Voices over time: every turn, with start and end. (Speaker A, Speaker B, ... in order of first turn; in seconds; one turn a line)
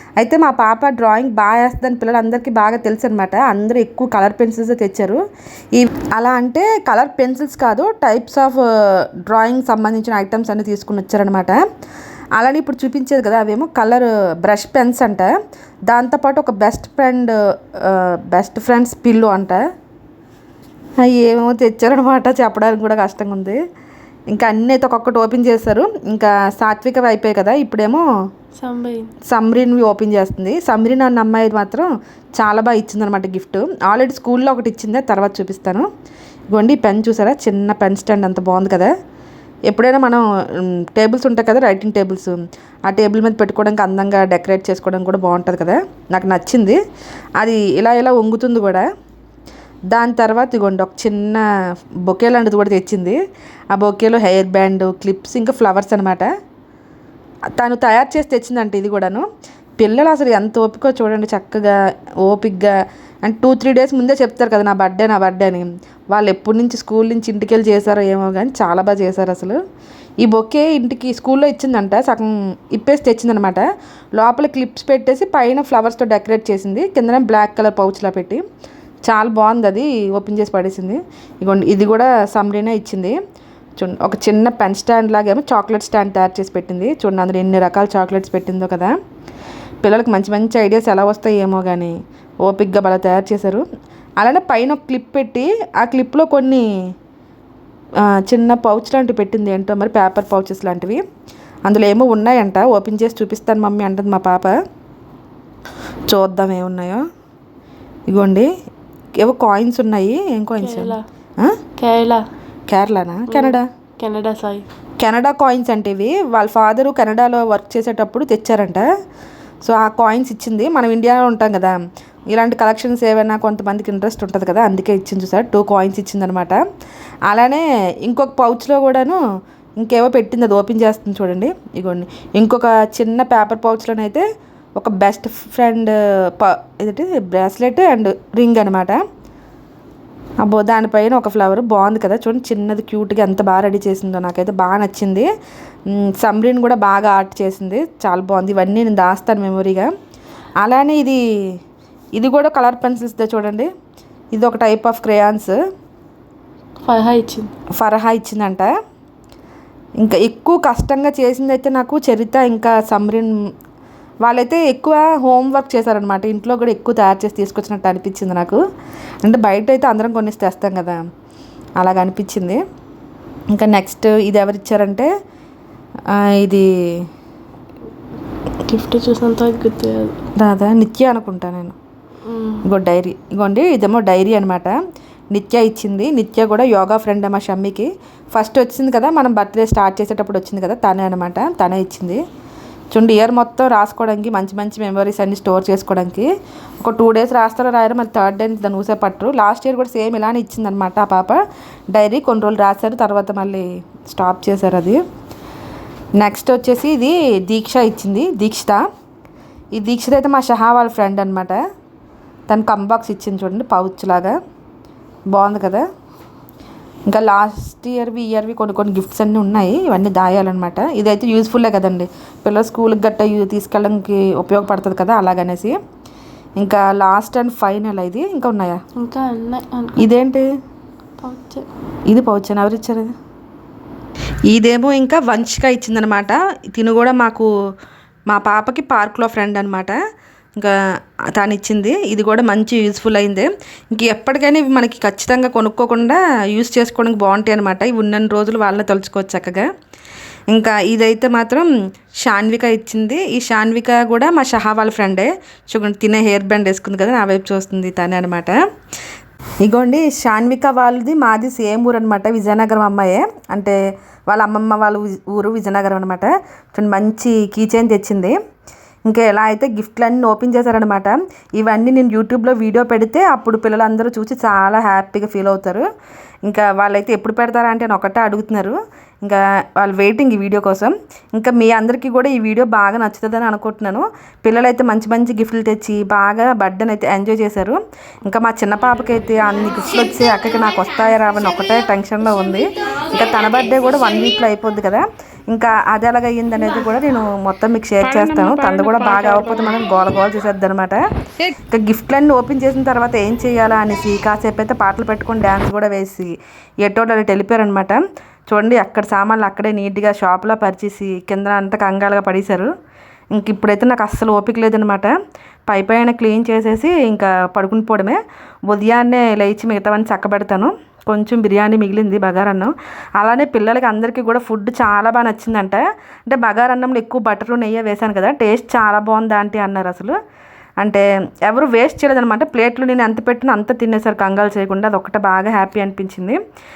Speaker A: 0.2-5.2
Speaker A: 5.7-11.6
Speaker A: 12.4-15.3
Speaker A: 15.9-19.6
Speaker A: 21.0-23.6
Speaker A: 24.3-28.1
Speaker B: 28.6-29.1
Speaker A: 29.3-35.9
Speaker A: 36.5-38.9
Speaker A: 39.7-46.8
Speaker A: 47.4-48.9
Speaker A: 49.9-51.5
Speaker A: 52.1-53.2
Speaker A: 53.7-56.3
Speaker A: 57.6-59.2
Speaker A: 59.8-69.6
Speaker A: 70.2-73.7
Speaker A: 74.2-78.4
Speaker A: 79.1-83.2
Speaker A: 83.8-88.9
Speaker A: 89.8-93.6
Speaker A: 94.2-96.7
Speaker A: 98.0-101.0
Speaker A: 101.7-104.6
Speaker A: 106.1-107.0
Speaker A: 108.1-108.5
Speaker A: 109.2-111.6
Speaker B: 110.6-111.0
Speaker B: 111.8-112.2
Speaker A: 112.7-113.7
Speaker B: 113.3-114.7
Speaker A: 115.0-118.9
Speaker A: 119.7-121.8
Speaker A: 122.3-126.6
Speaker A: 127.3-129.2
Speaker A: 129.8-134.2
Speaker A: 134.8-139.0
Speaker A: 140.4-145.3
Speaker A: 145.9-149.9
Speaker A: 150.6-151.2
Speaker A: 152.2-153.7
Speaker A: 154.3-155.6
Speaker B: 156.8-157.5
Speaker A: 157.8-158.7
Speaker A: 160.0-163.3
Speaker A: 164.2-168.6
Speaker A: 169.2-171.0
Speaker A: 171.8-172.6
Speaker A: 173.5-175.1
Speaker A: 176.1-177.0
Speaker B: 178.6-180.2
Speaker A: 180.3-181.8
Speaker B: 182.3-182.6
Speaker A: 182.6-184.8
Speaker A: 185.3-192.2
Speaker A: 192.9-196.3
Speaker A: 196.8-201.4
Speaker A: 201.9-205.0
Speaker A: 206.2-208.8
Speaker A: 209.8-211.6
Speaker A: 212.5-214.4
Speaker A: 215.3-215.9
Speaker A: 217.1-225.8
Speaker A: 226.6-228.8
Speaker B: 229.0-230.1
Speaker A: 230.0-230.5
Speaker B: 231.2-231.7
Speaker A: 232.1-233.1
Speaker A: 234.5-237.5
Speaker A: 238.3-240.0
Speaker A: 241.3-249.7
Speaker A: 250.5-251.7
Speaker A: 252.2-258.6
Speaker A: 259.6-268.4
Speaker A: 269.1-275.9
Speaker A: 276.4-312.7
Speaker A: 313.3-315.2
Speaker A: 315.7-330.2
Speaker A: 330.8-336.4